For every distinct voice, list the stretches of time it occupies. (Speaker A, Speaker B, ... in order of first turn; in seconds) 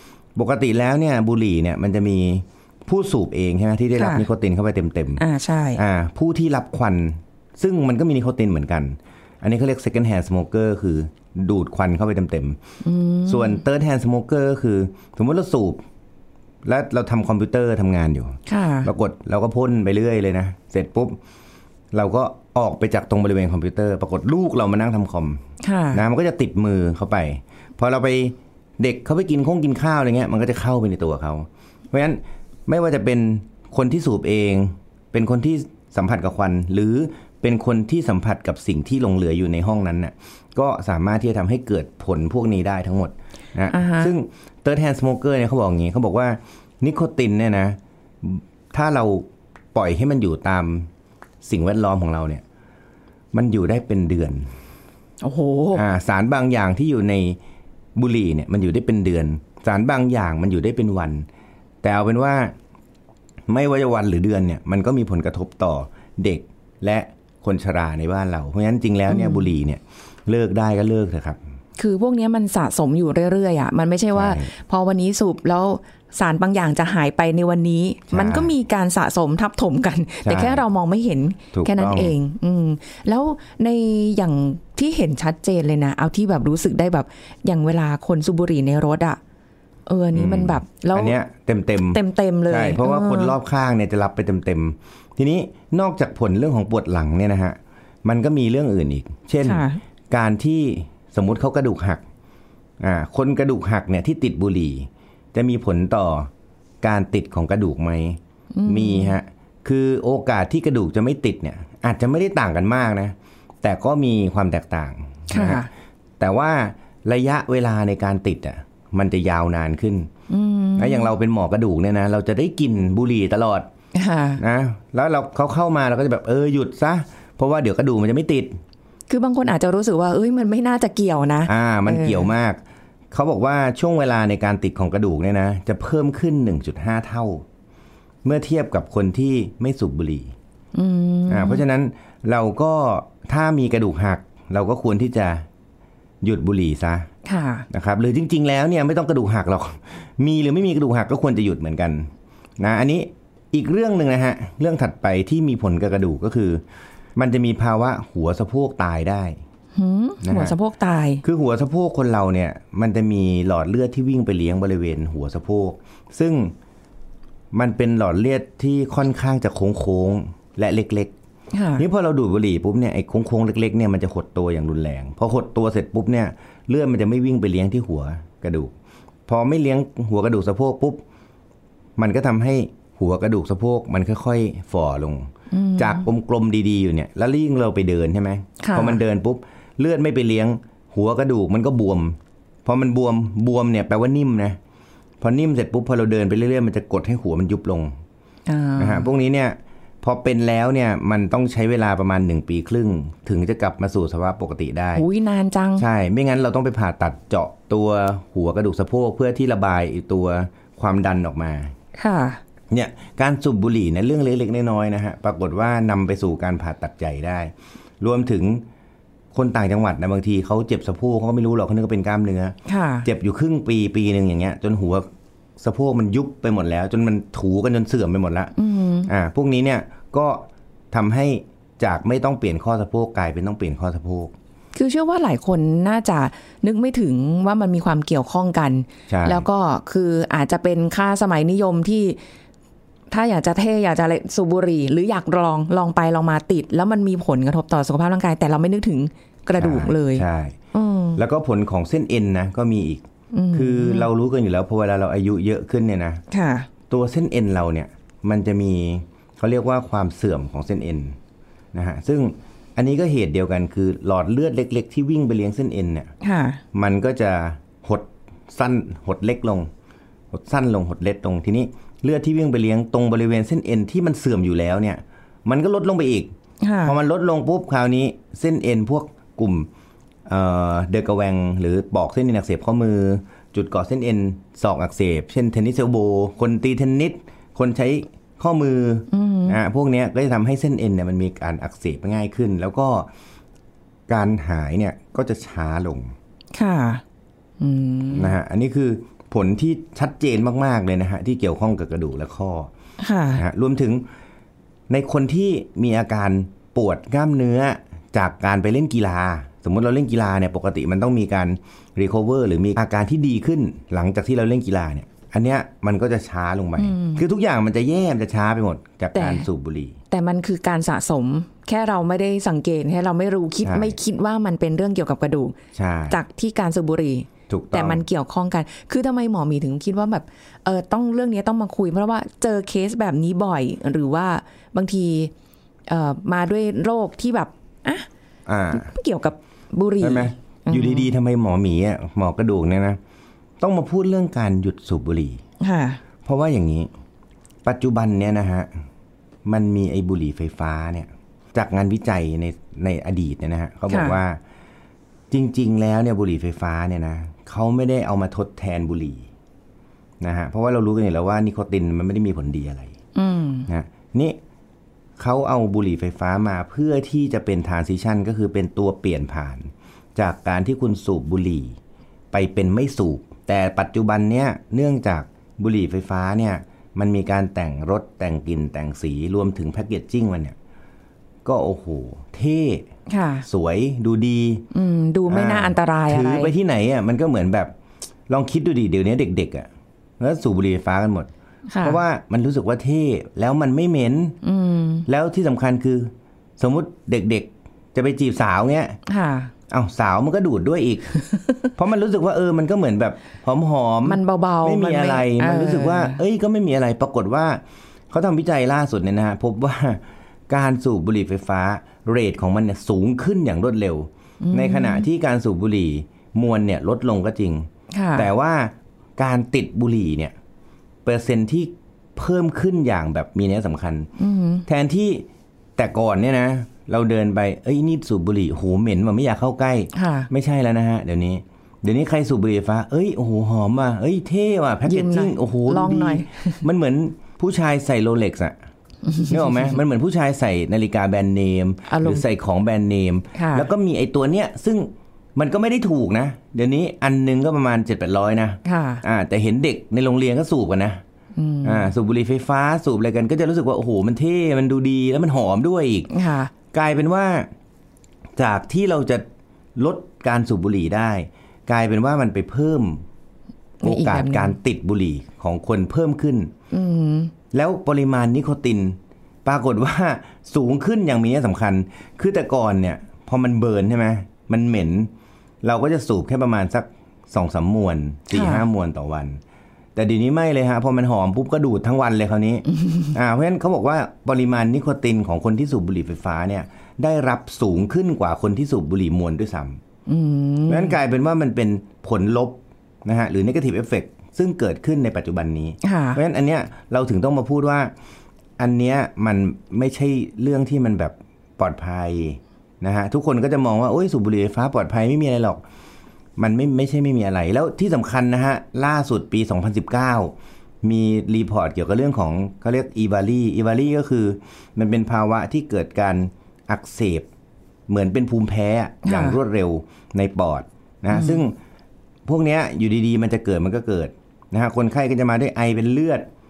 Speaker A: 0.3-5.2, 5.8-12.6, 13.2-15.8, 16.6-21.2, 21.9-25.4, 25.9-50.9, 51.4-52.4, 53.3-54.5, 55.7-57.4, 58.0-61.3, 61.8-62.5, 63.5-71.4, 74.1-74.5, 78.1-78.5, 80.2-80.6, 81.5-82.1, 90.1-102.0, 102.8-106.3, 106.8-115.7, 116.2-120.1, 120.8-123.7, 124.4-128.6, 131.5-132.6, 133.1-137.4, 138.2-140.3, 141.3-145.4, 146.2-147.1, 147.7-156.6, 157.2-159.4, 160.2-160.5, 161.2-166.5, 167.5-171.1, 171.8-178.7, 179.3-181.0, 182.0-194.6, 195.2-198.0, 198.8-205.0, 205.8-211.7, 212.7-218.6, 219.3-225.1, 225.6-228.5, 229.1-234.3, 239.1-239.4, 249.6-250.6, 251.2-256.2, 256.9-261.2, 261.7-266.1, 266.7-269.7, 270.3-276.3, 276.8-279.7, 280.3-293.1, 294.1-296.1, 298.1-302.7, 303.4-304.0, 304.9-320.0, 323.6-323.9, 325.7-326.2, 327.5-328.0, 338.4-338.9, 340.0-343.0, 343.6-345.4, 346.2-346.9, 347.6-348.7, 349.4-354.4, 355.3-359.3, 360.2-362.9, 363.7-364.4, 365.2-371.8, 372.3-380.6, 381.4-382.9, 383.4-384.7, 385.3-387.7, 388.3-391.3, 391.8-394.4, 395.1-399.0, 399.7-401.1, 401.7-420.3, 421.0-424.1, 424.7-425.2, 425.8-438.6, 439.3-451.0, 451.6-456.1, 456.7-457.5, 458.4-459.2, 459.8-463.0, 463.8-466.5, 467.5-475.1, 475.6-479.4, 479.9-489.8, 490.7-497.9, 498.6-505.6, 506.4-517.3, 517.9-521.6, 522.2-526.3
Speaker B: 4.0-4.3, 5.2-5.8, 12.8-13.6, 18.5-18.9, 25.6-26.0, 43.7-44.1, 55.2-55.8, 69.1-69.5, 71.8-89.2, 89.9-91.2, 91.9-93.3, 99.4-99.8, 108.5-109.2, 115.3-115.7, 120.3-121.1, 123.9-124.4, 129.1-132.3, 140.7-141.6, 147.2-147.7, 159.7-161.2, 171.5-171.8, 185.5-186.0, 188.6-189.0, 198.5-199.1, 204.9-205.8, 211.9-212.4, 222.7-223.1, 228.6-229.1, 234.7-242.2, 243.1-251.2, 253.3-254.1, 256.3-256.7, 266.2-266.6, 276.6-277.0, 289.1-289.6, 296.5-297.0, 297.6-298.3, 303.0-303.4, 316.8-317.2, 319.1-319.4, 320.1-325.6, 326.1-335.3, 335.9-338.1, 338.7-341.1, 345.6-346.0, 353.9-354.2, 363.1-363.7, 383.1-383.4, 384.7-386.5, 391.7-392.0, 394.4-395.1, 399.1-399.5, 401.2-401.6, 404.0-406.2, 414.4-415.1, 417.9-418.3, 424.2-424.6, 429.9-430.3, 434.9-436.6, 439.0-439.8, 441.9-442.2, 443.3-443.7, 448.6-449.0, 451.3-451.9, 456.1-456.5, 463.8-464.5, 466.7-467.3, 478.3-478.6, 482.8-483.1, 490.1-491.0, 495.8-496.2, 519.0-519.4, 521.1-521.4